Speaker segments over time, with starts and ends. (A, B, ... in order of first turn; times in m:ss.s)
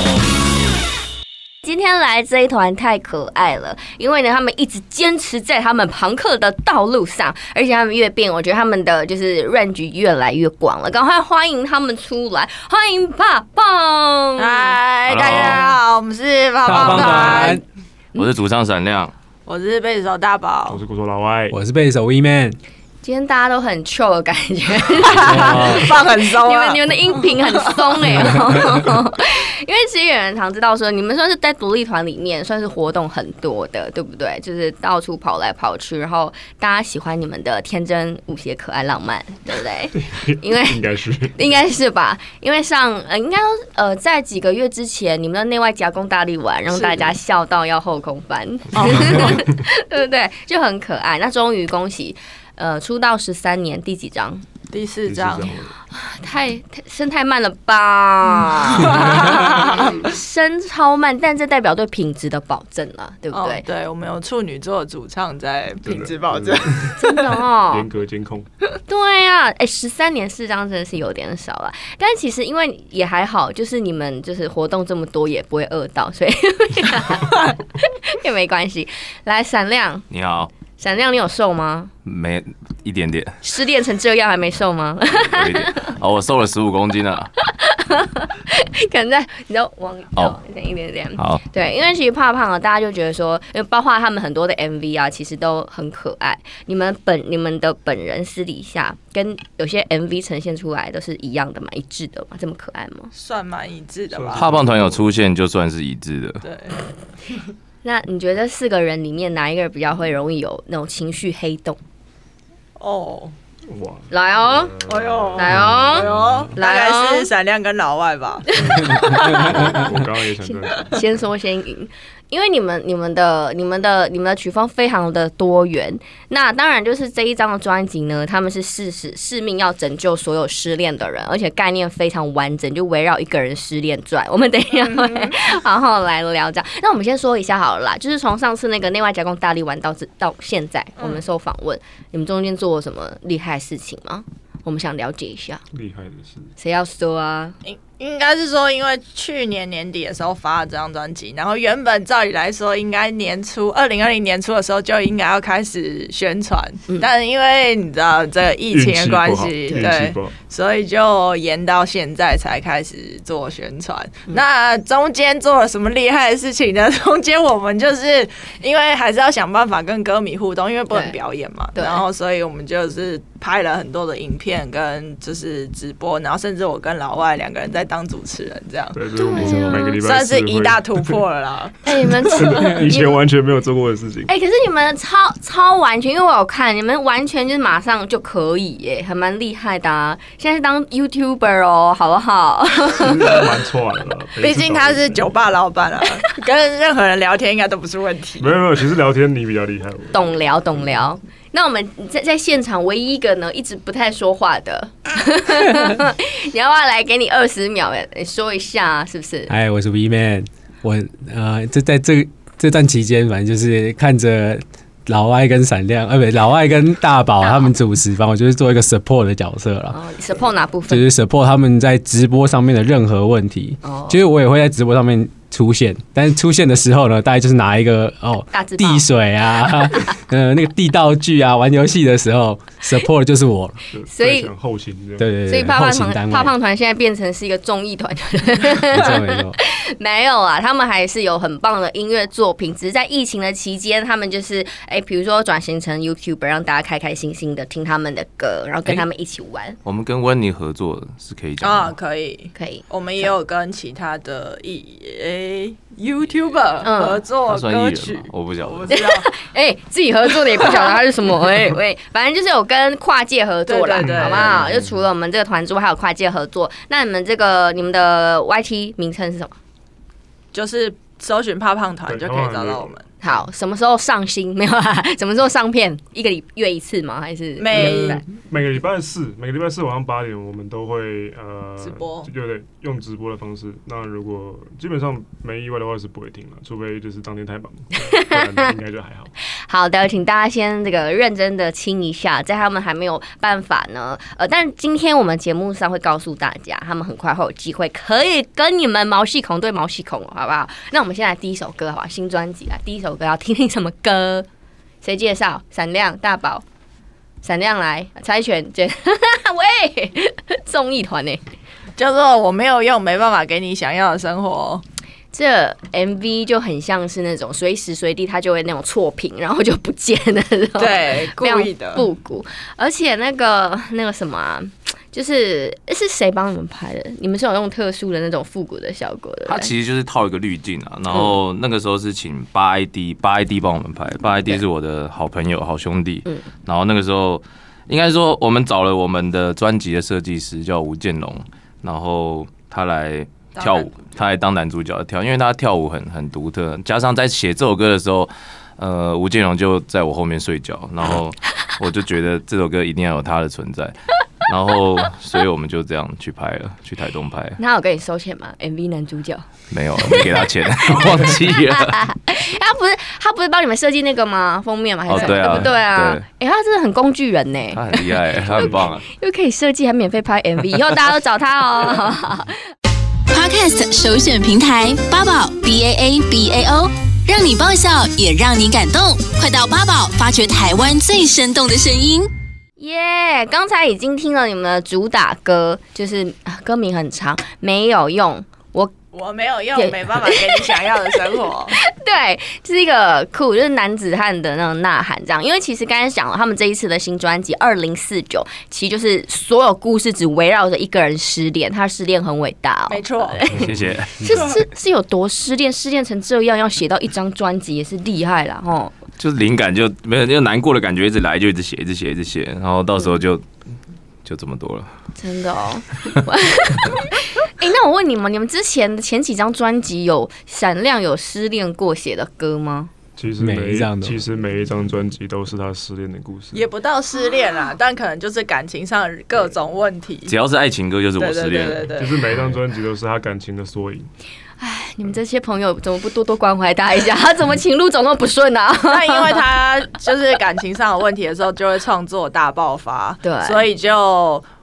0:01.6-0:14.8 A
0:14.4-0:17.6 B
0:15.1-0:15.7 C
0:16.6-0:17.6 D
0:16.7-0:17.6 C
0:18.2-0:19.1 C
0:19.5-0:20.8 B
0:20.7-0:21.6 E
0:21.5-0:22.6 D
0:23.0-0:40.8 A
0:25.0-0:27.2 B
0:25.2-0:26.0 D
0:39.9-0:41.6 E
0:41.4-0:54.4 A
0:46.7-0:47.1 B
0:48.7-0:49.4 B
0:54.7-0:55.5 B
0:55.1-0:55.7 E
0:55.9-1:03.6 A
0:58.9-0:59.9 B
1:03.3-1:07.1 B
1:05.8-1:07.0 E
1:07.0-1:07.9 A
1:07.7-1:08.5 E
1:08.9-1:20.1 A
1:20.1-1:20.5 C
1:20.8-1:21.9 A
1:22.1-1:23.4 C
1:23.4-1:25.9 A
1:25.2-1:27.3 C
1:27.4-1:43.1 A
1:43.1-1:44.6 B
1:44.1-1:45.1 E
1:44.4-1:46.4 C
1:46.4-1:46.8 B
1:47.8-1:51.8 A
1:52.8-1:53.3 B
1:53.7-1:56.5 E
1:54.1-1:54.8 A
1:54.9-1:59.7 B
1:55.4-1:57.3 A
1:56.0-1:56.4 D
1:58.5-2:01.0 E
1:58.5-1:59.5 A
2:00.4-2:25.6 A
2:14.9-2:15.4 B
2:25.7-2:26.5 E
2:26.6-2:27.6 A
2:27.6-2:59.0 B
2:38.7-2:40.3 E
2:50.9-2:51.2 A
2:51.8-2:52.0 A
2:58.9-3:01.2 E
2:59.2-3:00.0 A
3:00.0-3:01.8 B
3:01.8-3:03.2 A
3:02.3-3:04.3 E
3:04.3-3:13.5 A
3:12.9-3:15.4 E
3:14.4-3:18.6 B
3:18.4-3:20.4 E
3:20.1-3:29.5 A
3:29.5-3:40.0 D
3:37.4-3:37.7 A
3:39.9-3:41.1 A
3:40.9-3:53.8 D
3:43.8-3:44.2 A
3:48.5-3:49.1 A
3:53.9-3:55.4 E
3:54.1-3:54.5 A
3:55.2-3:56.5 D
3:55.5-4:09.8 A
3:58.9-3:59.6 D
4:09.8-4:11.9 C
4:11.6-4:19.3 B
4:12.6-4:13.3 A
4:16.8-4:17.2 A
4:17.5-4:18.9 C
4:18.9-4:29.5 A
4:20.6-4:21.0 B
4:23.7-4:24.6 B
4:24.0-4:25.0 E
4:30.5-4:33.0 B
4:32.1-4:33.0 E
4:33.2-4:38.2 A
4:37.6-4:38.2 B
4:37.7-4:49.3 E
4:41.8-4:42.3 B
4:48.0-4:48.7 A
4:49.7-5:04.5 A
5:05.0-5:06.6 A
5:07.4-5:11.4 A
5:12.0-5:14.8 B
5:15.3-5:29.7 A
5:20.8-5:22.0 B
5:29.5-5:57.6 C
5:43.6-5:43.9 B
5:57.6-5:59.4 A
5:59.7-6:02.0 C
6:00.0-6:12.6 A
6:05.1-6:06.2 C
6:07.7-6:09.0 C
6:13.3-6:22.3 F
6:22.8-6:28.9 A
6:29.1-6:31.8 B
6:29.8-6:30.9 A
6:31.8-6:48.9 A
6:42.9-6:43.5 B
6:43.6-6:44.3 C
6:49.2-6:53.4 C
6:54.2-6:54.9 C
6:55.2-7:02.9 A
7:03.2-7:06.7 E
7:03.4-7:04.2 D
7:06.5-7:10.3 B
7:10.3-7:11.9 C
7:11.2-7:12.3 B
7:12.0-7:14.1 E
7:14.6-7:19.4 A
7:18.9-7:24.5 B
7:23.2-7:23.6 A